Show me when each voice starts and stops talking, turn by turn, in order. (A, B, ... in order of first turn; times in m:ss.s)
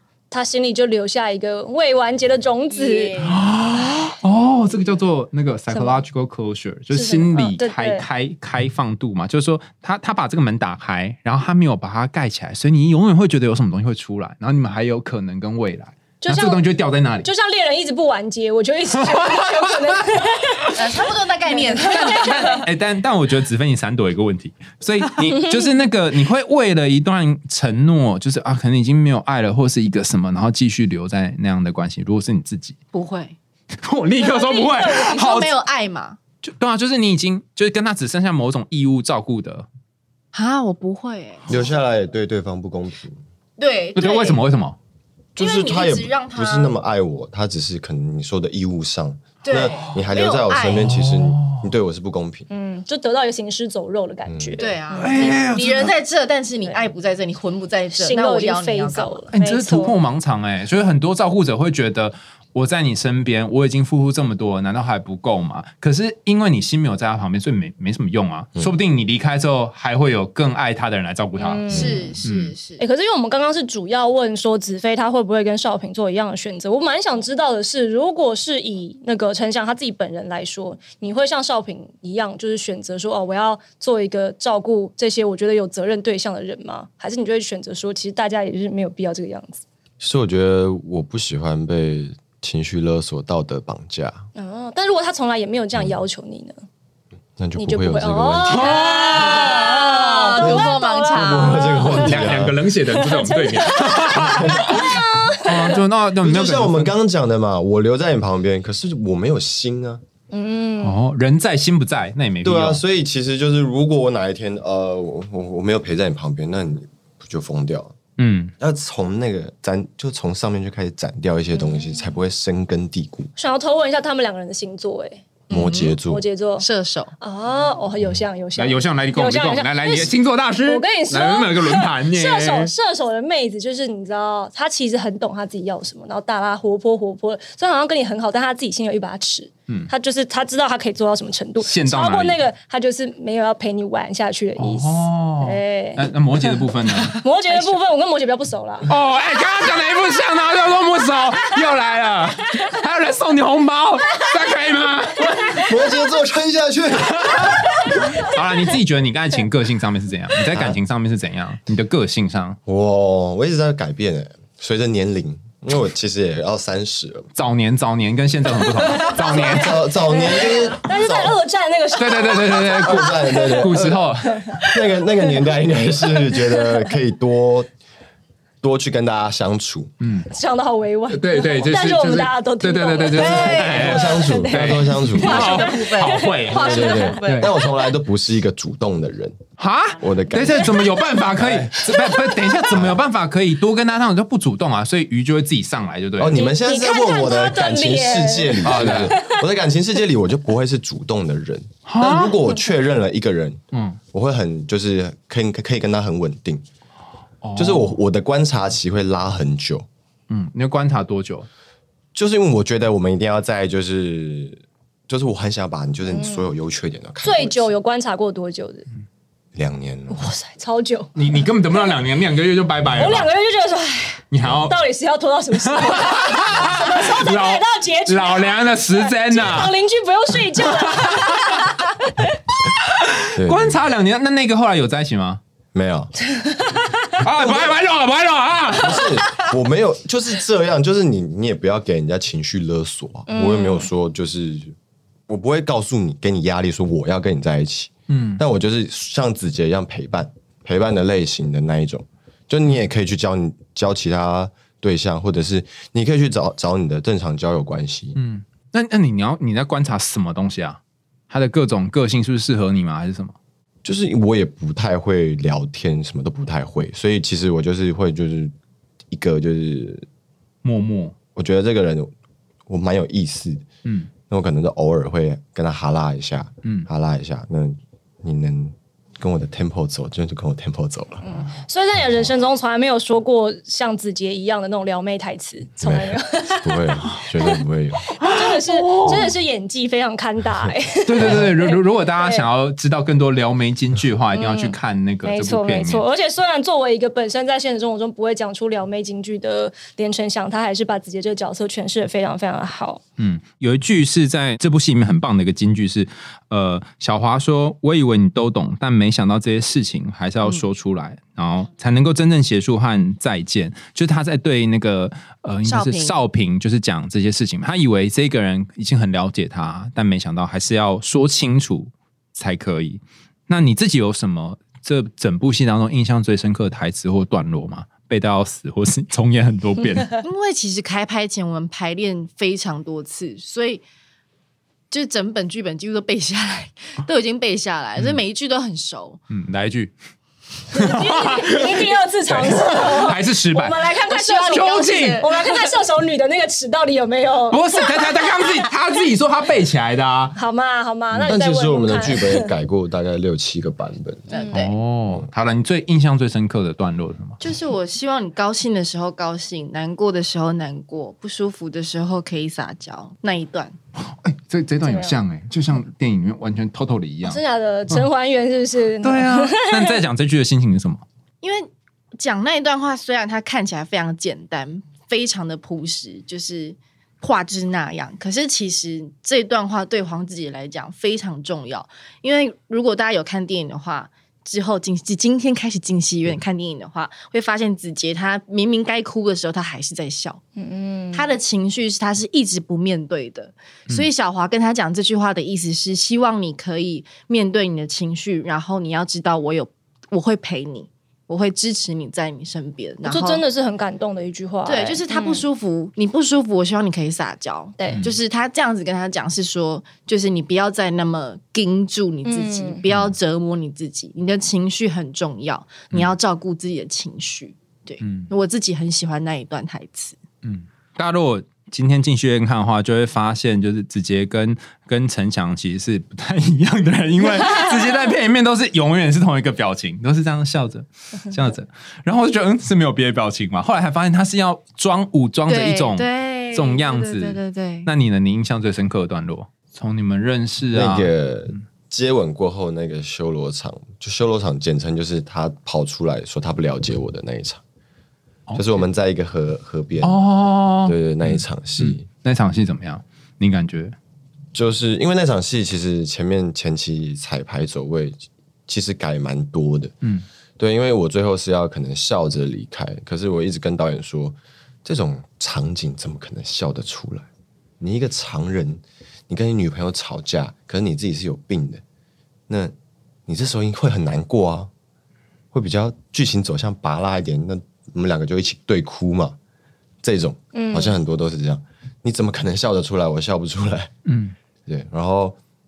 0:00.3-0:03.2 A
0:02.7-0:03.5 B
0:03.2-0:17.3 C
0:05.7-0:06.0 A
0:06.9-0:08.0 A
0:16.2-0:16.6 A
0:17.2-0:20.8 A
0:19.2-0:19.6 C
0:20.8-0:22.6 B
0:21.5-0:22.6 A
0:21.9-0:32.8 C
0:32.9-0:33.4 B
0:33.8-0:35.5 C
0:34.2-0:35.2 A
0:34.6-0:36.2 B
0:36.4-0:39.7 C
0:40.3-0:41.6 B
0:41.5-0:43.2 D
0:43.6-0:44.4 B
0:44.0-0:44.8 C
0:45.4-0:52.5 D
0:45.4-0:46.7 B
0:49.4-0:51.0 B
0:50.6-0:51.7 C
0:52.5-0:55.3 A
0:54.3-0:54.7 D
0:54.6-0:59.2 B
0:54.9-0:55.9 C
0:58.0-1:00.0 A
0:59.3-1:12.5 C
1:11.4-1:12.2 A
1:11.7-1:12.8 B
1:11.7-1:12.1 D
1:12.8-1:29.6 A
1:30.0-1:34.3 D
1:34.4-1:36.6 A
1:37.4-1:38.8 D
1:37.6-1:42.3 A
1:38.5-1:39.8 C
1:38.6-1:42.0 B
1:40.4-1:42.6 D
1:41.9-1:46.9 C
1:42.9-1:45.8 A
1:44.1-1:44.9 D
1:46.2-1:50.0 D
1:50.3-1:51.0 A
1:50.8-1:52.8 C
1:52.4-1:58.0 D
1:58.2-1:58.5 C
1:58.6-2:03.3 D
2:01.6-2:02.0 A
2:03.4-2:05.2 A
2:05.5-2:06.2 D
2:05.5-2:06.0 B
2:06.0-2:06.7 A
2:06.6-2:07.1 B
2:07.2-2:10.1 A
2:08.6-2:12.7 C
2:10.6-2:28.9 A
2:21.6-2:22.4 C
2:24.6-2:27.8 C
2:28.9-2:35.8 C
2:35.6-2:37.7 D
2:37.0-2:42.6 C
2:40.5-2:40.8 D
2:42.7-2:47.3 D
2:47.4-2:49.8 C
2:48.9-2:51.4 D
2:49.0-2:53.7 A
2:52.0-2:54.5 C
2:52.6-2:57.7 D
2:54.4-2:54.7 A
2:58.6-2:59.9 D
3:00.0-3:00.3 C
3:00.3-3:07.2 A
3:01.1-3:07.5 C
3:03.1-3:05.7 D
3:03.3-3:04.0 B
3:05.2-3:07.7 B
3:06.5-3:09.4 D
3:09.6-3:16.4 C
3:10.0-3:11.8 D
3:11.9-3:12.5 A
3:12.7-3:13.0 D
3:16.2-3:23.6 D
3:16.3-3:19.4 A
3:18.6-3:19.1 C
3:21.9-3:22.4 C
3:23.7-3:24.0 C
3:24.1-3:26.6 D
3:27.4-3:28.0 C
3:27.6-3:29.9 D
3:30.3-3:31.5 C
3:32.2-3:37.7 D
3:36.1-3:36.5 A
3:37.2-3:38.9 A
3:39.6-3:40.3 D
3:40.1-3:41.2 A
3:41.2-3:43.3 C
3:43.0-3:52.3 A
3:44.3-3:44.8 C
3:44.4-3:44.7 D
3:45.6-3:49.7 C
3:50.6-3:51.7 C
3:52.9-3:55.4 C
3:53.4-3:53.8 D
3:55.7-3:56.1 D
3:56.4-3:57.1 A
3:57.2-3:59.1 C
3:58.8-4:04.7 D
4:03.3-4:03.9 A
4:05.3-4:18.2 D
4:08.1-4:08.4 C
4:18.2-4:23.4 C
4:23.8-4:28.5 D
4:29.1-4:30.1 D
4:30.6-4:31.2 C
4:31.4-4:32.1 D
4:32.7-4:33.7 D
4:33.8-4:34.1 C
4:34.3-4:41.2 D
4:41.2-4:47.6 A
4:45.8-4:48.1 D
4:48.2-4:52.4 A
4:48.2-4:49.3 C
4:51.1-4:56.0 C
4:51.2-4:51.5 D
4:54.3-5:03.0 A
5:03.2-5:30.2 C
5:15.6-5:16.1 B
5:30.2-5:33.8 B
5:34.9-5:39.2 B
5:39.3-5:39.9 C
5:40.7-5:48.0 A
5:40.7-5:43.9 C
5:44.1-5:45.6 B
5:44.5-5:45.3 C
5:47.5-5:50.4 C
5:50.4-5:52.5 A
5:51.2-5:54.4 D
5:54.3-5:54.6 A
5:54.3-5:54.7 B
5:54.5-5:57.4 C
5:57.4-6:03.8 B
6:04.1-6:08.1 C
6:04.8-6:05.2 A
6:07.2-6:10.0 A
6:09.0-6:11.0 C
6:11.4-6:30.4 B
6:30.6-6:31.3 A
6:31.1-6:43.4 B
6:43.0-6:45.4 A
6:44.7-7:00.2 B
6:47.8-6:48.0 A
6:47.9-6:48.2 C
6:52.3-6:52.8 A
6:52.9-6:53.2 C
6:58.0-6:58.3 C
7:00.4-7:21.1 C
7:15.5-7:17.9 B
7:20.7-7:27.6 D
7:28.5-7:28.8 C
7:28.6-7:30.2 D
7:30.0-7:34.0 C
7:30.8-7:32.1 D
7:34.5-7:39.9 D
7:40.6-7:47.3 D
7:47.8-7:51.8 D
7:52.5-7:52.7 D
7:53.3-7:54.7 D
7:55.5-7:59.4 D
8:00.0-8:03.9 D
8:00.5-8:01.0 A
8:04.1-8:04.4 C
8:04.7-8:05.4 D